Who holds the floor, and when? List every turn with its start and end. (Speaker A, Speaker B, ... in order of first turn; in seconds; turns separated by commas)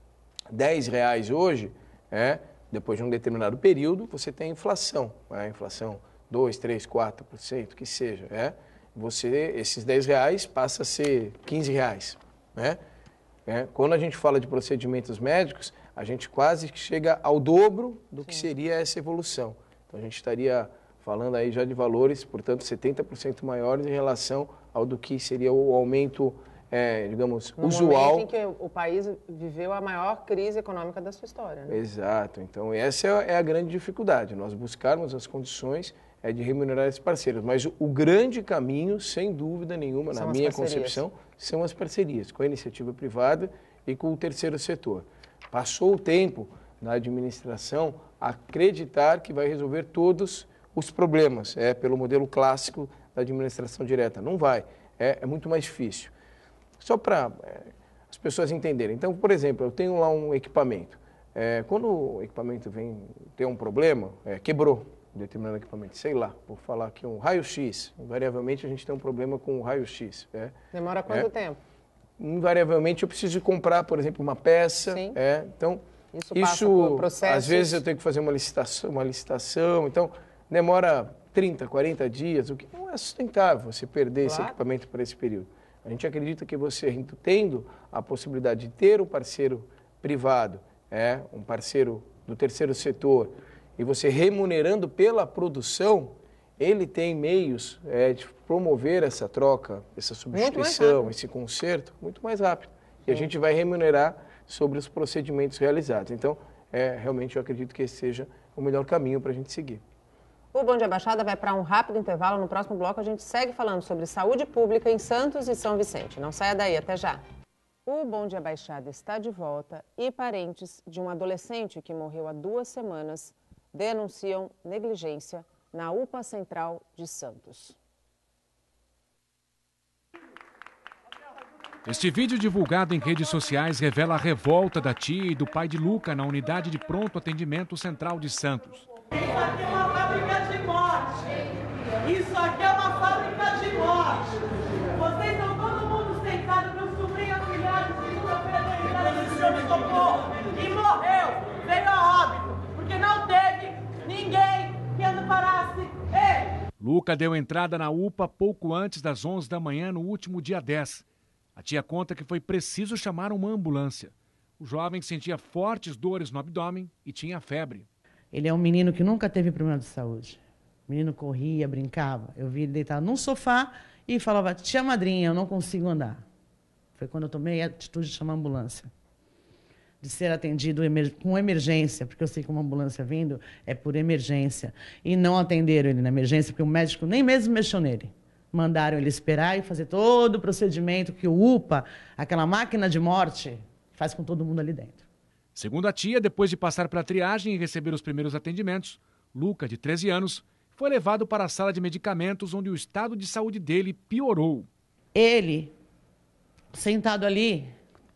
Speaker A: 0.5-12.8, Speaker A: 13.5-28.3, Speaker B: 27.6-31.8, Speaker A: 31.7-56.1, Speaker B: 40.1-41.0, Speaker A: 56.8-70.5, Speaker B: 70.7-71.6, Speaker A: 72.2-75.8, Speaker B: 74.9-75.2, Speaker B: 76.1-77.8, Speaker A: 76.3-109.8, Speaker B: 84.2-84.6, Speaker B: 100.3-101.1, Speaker B: 110.5-117.2, Speaker B: 117.9-127.8, Speaker C: 131.9-138.9, Speaker C: 139.5-139.8, Speaker D: 139.8-140.8, Speaker D: 142.1-144.2, Speaker D: 145.0-156.1, Speaker C: 156.8-161.1, Speaker C: 161.6-167.9, Speaker E: 168.3-176.2, Speaker E: 177.0-178.9, Speaker E: 180.0-195.1, Speaker C: 195.6-204.7, Speaker E: 205.2-205.7, Speaker E: 206.7-207.8